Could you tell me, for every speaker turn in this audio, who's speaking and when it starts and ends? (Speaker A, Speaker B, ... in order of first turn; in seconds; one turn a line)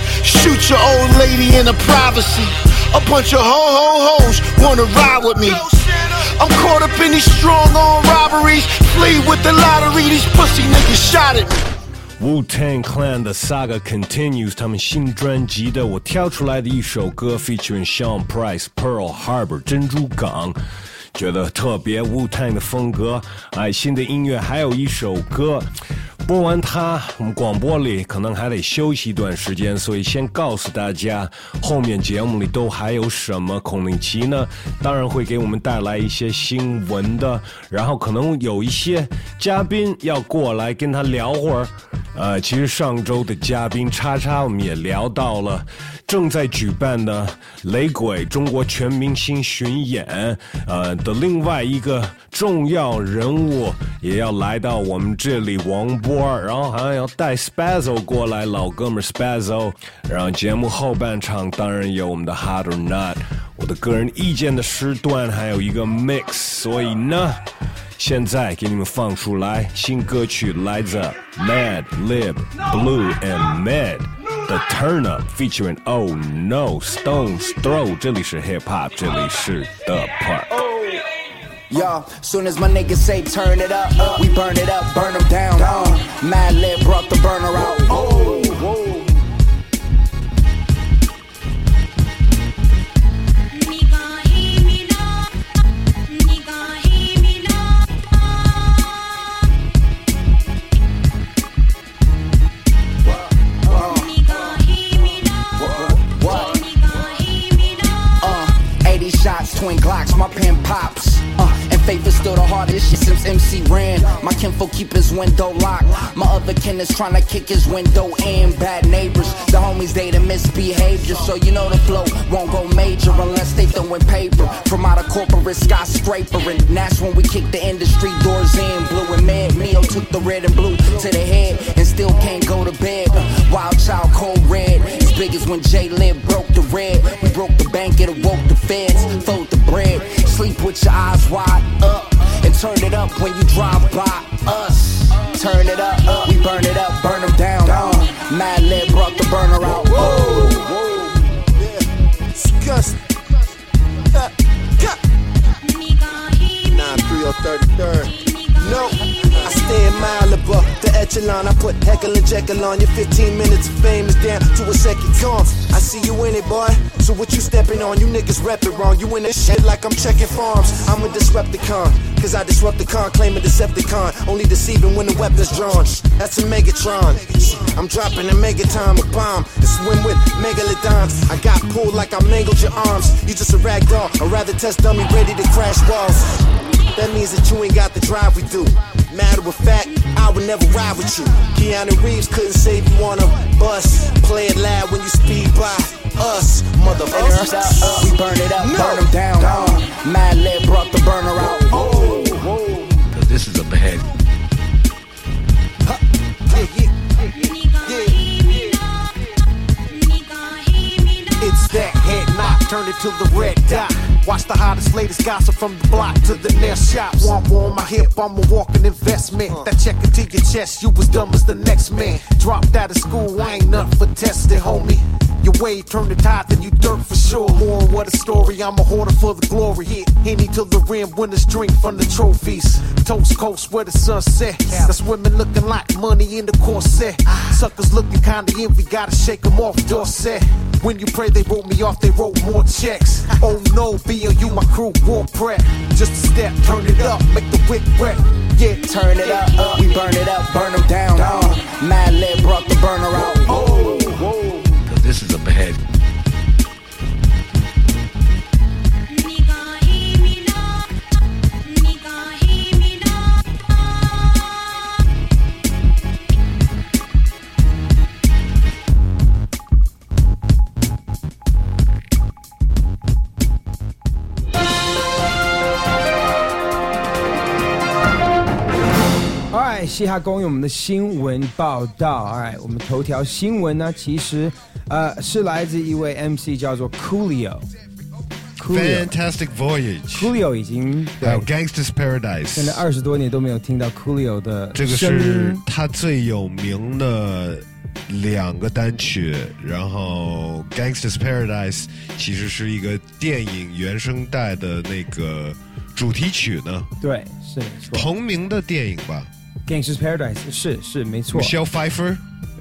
Speaker A: 0.2-11.7
Speaker B: 12.2-20.6
Speaker B: 21.1-25.7
Speaker B: 26.2-67.4
Speaker B: 68.0-80.7
Speaker C: 81.7-88.1
Speaker D: 87.9-89.0
Speaker C: 103.6-104.1
Speaker C: 105.5-106.6
Speaker C: 108.2-150.3
Speaker D: 149.6-151.8
Speaker D: 152.3-153.0
Speaker D: 154.1-155.0
Speaker D: 156.6-186.3
Speaker D: 186.9-199.7
Speaker C: 197.0-201.8
Speaker D: 201.7-202.9
Speaker E: 203.1-204.1
Speaker D: 205.9-208.8
Speaker D: 211.3-249.6
Speaker C: 248.8-253.6
Speaker D: 251.1-251.6
Speaker D: 253.3-254.6
Speaker E: 254.8-255.8
Speaker F: 279.5-287.7
Speaker F: 288.6-289.1
Speaker B: 288.7-290.3
Speaker F: 290.1-291.4
Speaker B: 291.2-292.8
Speaker F: 292.6-295.6
Speaker B: 294.7-306.9
Speaker F: 307.0-308.1
Speaker B: 307.9-309.3
Speaker F: 309.7-311.6
Speaker B: 311.3-312.2